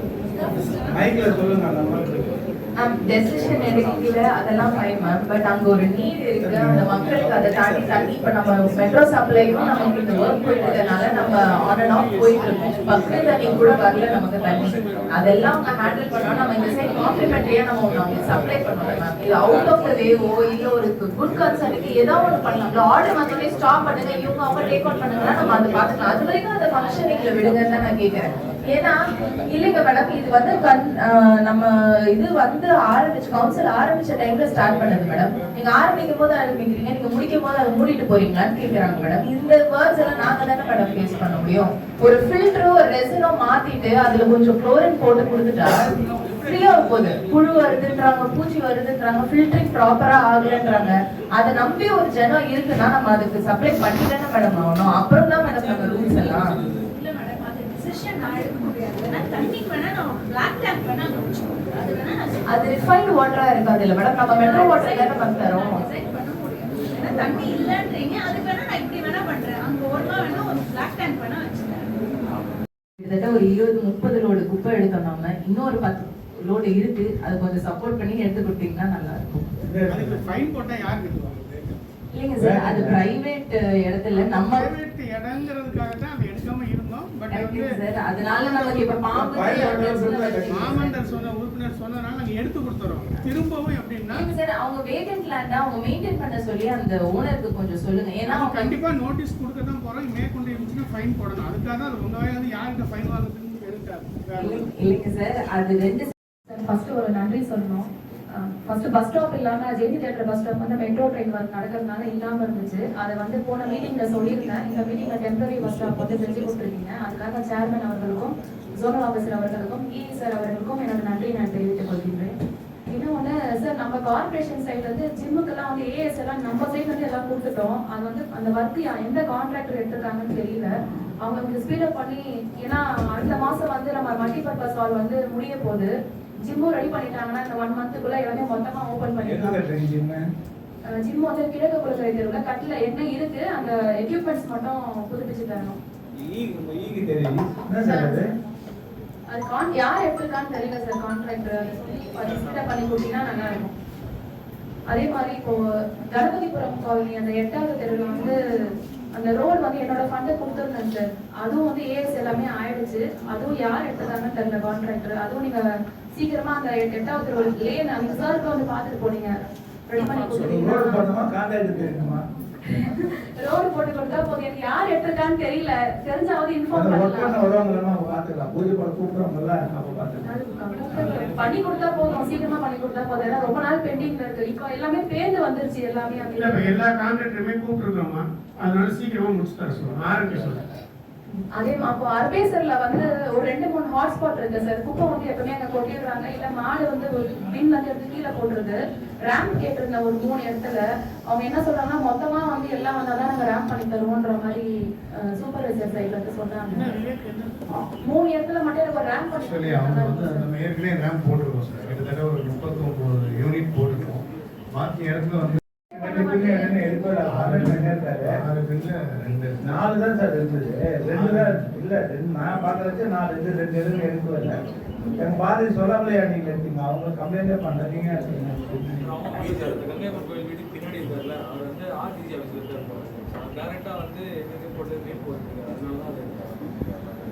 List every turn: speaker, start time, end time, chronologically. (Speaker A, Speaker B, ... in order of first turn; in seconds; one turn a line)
Speaker A: 0.4-1.0
Speaker B: 0.9-2.4
Speaker C: 2.8-56.6
Speaker B: 6.4-6.9
Speaker D: 9.9-11.2
Speaker D: 12.2-12.7
Speaker E: 46.0-47.8
Speaker A: 55.5-62.6
Speaker C: 62.5-65.9
Speaker A: 64.3-72.0
Speaker C: 73.0-79.5
Speaker B: 79.6-80.2
Speaker D: 79.9-81.8
Speaker C: 82.1-84.7
Speaker B: 82.4-83.0
Speaker D: 84.1-87.8
Speaker C: 87.3-91.2
Speaker D: 88.4-89.8
Speaker B: 89.1-90.8
Speaker D: 90.4-94.3
Speaker C: 94.1-98.8
Speaker D: 98.2-104.6
Speaker C: 104.4-106.1
Speaker F: 106.5-122.3
Speaker F: 122.9-130.7
Speaker F: 131.2-135.9
Speaker F: 136.4-139.6
Speaker B: 139.2-140.2
Speaker F: 141.0-145.8
Speaker B: 146.3-148.2
Speaker F: 147.8-148.2
Speaker F: 149.3-153.7
Speaker F: 154.9-155.6
Speaker F: 156.1-158.4
Speaker F: 159.1-165.6
Speaker F: 166.2-169.3
Speaker F: 169.9-171.1
Speaker B: 170.3-172.2
Speaker F: 172.7-177.4
Speaker B: 176.7-180.3
Speaker F: 180.2-186.8
Speaker E: 180.6-182.6
Speaker D: 186.4-190.7
Speaker F: 191.6-204.7
Speaker F: 205.2-206.9
Speaker D: 206.7-207.7
Speaker F: 208.0-210.5
Speaker G: 209.3-215.6
Speaker F: 215.9-217.1
Speaker B: 216.0-218.3
Speaker G: 217.2-219.8
Speaker B: 219.6-224.6
Speaker G: 221.1-221.7
Speaker B: 225.1-229.1
Speaker E: 229.0-236.8